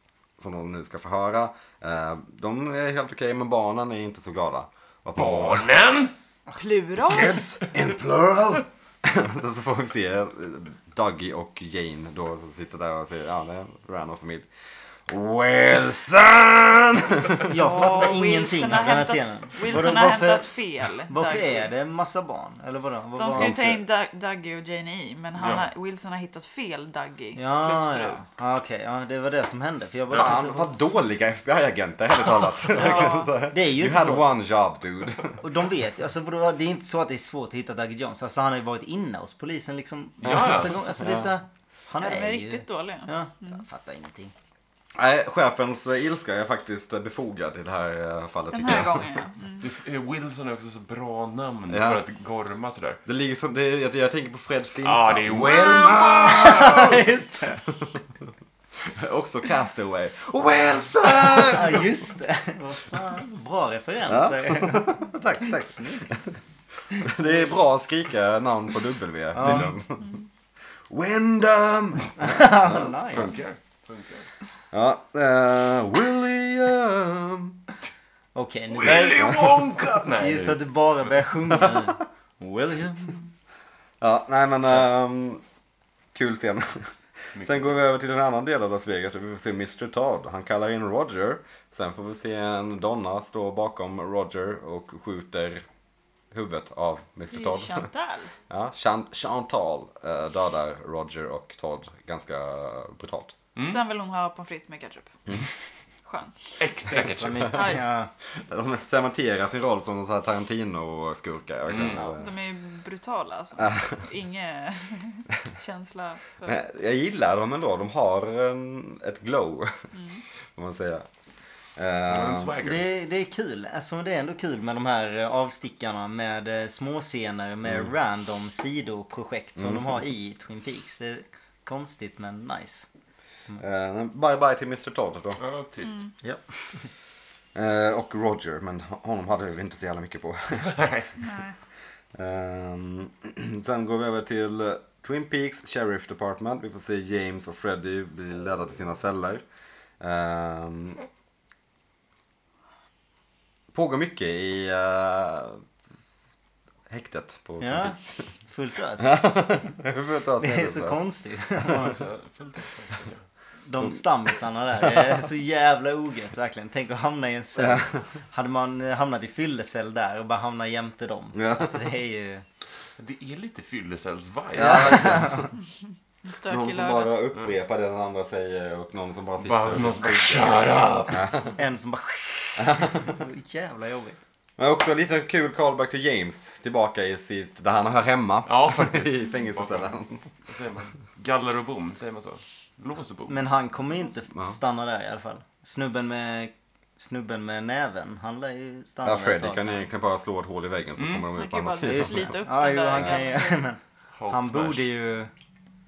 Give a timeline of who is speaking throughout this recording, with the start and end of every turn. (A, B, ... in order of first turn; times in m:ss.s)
0:00.4-0:05.7 A
0:05.2-0:06.1 B
0:06.6-0:07.5 C
0:07.0-0:17.5 A
0:17.4-0:20.5 D
0:17.5-0:21.7 C
0:21.1-0:23.6 D
0:23.2-0:28.2 C
0:23.3-0:23.8 A
0:25.4-0:25.7 B
0:27.4-0:30.7 D
0:30.1-0:35.4 A
0:32.7-0:33.3 C
0:33.5-0:34.3 D
0:35.4-0:44.3 D
0:40.2-0:40.8 B
0:40.2-0:40.6 A
0:42.0-0:43.6 C
0:45.0-0:49.1 A
0:48.5-0:49.7 C
0:49.6-0:53.0 B
0:51.7-0:52.0 A
0:53.1-0:57.0 A
0:54.8-0:57.0 B
0:56.3-0:57.6 D
0:58.8-1:01.9 A
1:01.4-1:06.3 D
1:04.1-1:06.3 A
1:06.9-1:07.5 D
1:07.0-1:10.1 A
1:09.3-1:09.7 D
1:09.4-1:09.7 B
1:10.9-1:13.4 A
1:12.2-1:13.4 D
1:13.1-1:14.3 B
1:14.7-1:17.7 A
1:18.4-1:23.3 D
1:18.7-1:20.6 B
1:19.0-1:19.6 A
1:24.0-1:25.4 A
1:26.1-1:35.6 A
1:27.4-1:27.6 B
1:36.3-1:37.9 A
1:37.3-1:38.3 C
1:38.5-1:43.4 A
1:43.6-1:43.8 B
1:43.6-1:45.1 C
1:46.1-1:46.5 C
1:46.6-1:47.5 B
1:46.9-1:48.1 D
1:47.1-1:47.8 A
1:47.5-1:47.9 C
1:48.3-1:52.3 A
1:51.7-1:52.1 B
1:51.9-1:56.6 C
1:53.6-1:54.0 A
1:56.4-1:59.9 A
1:59.9-2:00.2 C
2:00.6-2:01.1 A
2:01.8-2:02.6 A
2:02.1-2:02.9 B
2:02.6-2:12.9 D
2:09.6-2:09.8 A
2:13.6-2:15.4 A
2:15.4-2:16.1 B
2:15.8-2:16.1 C
2:16.2-2:16.9 D
2:17.5-2:20.8 A
2:20.7-2:21.1 B
2:21.2-2:21.6 C
2:22.1-2:29.4 A
2:30.0-2:31.0 A
2:33.7-2:35.6 A
2:36.9-2:38.3 A
2:37.6-2:39.2 D
2:39.0-2:41.0 A
2:40.4-2:42.0 D
2:41.6-2:43.2 B
2:43.6-2:52.4 D
2:47.6-2:48.0 A
2:51.3-2:51.8 A
2:53.0-2:55.3 B
2:54.6-2:55.5 D
2:54.6-2:55.5 A
2:56.2-2:57.2 C
2:56.5-3:00.6 A
2:59.4-3:01.2 B
3:01.1-3:01.6 A
3:01.6-3:04.2 D
3:02.6-3:03.2 A
3:04.6-3:10.2 A
3:08.5-3:13.4 B
3:13.3-3:19.8 D
3:19.0-3:22.4 A
3:21.0-3:21.3 B
3:21.3-3:23.6 C
3:21.8-3:25.3 D
3:24.2-3:24.9 B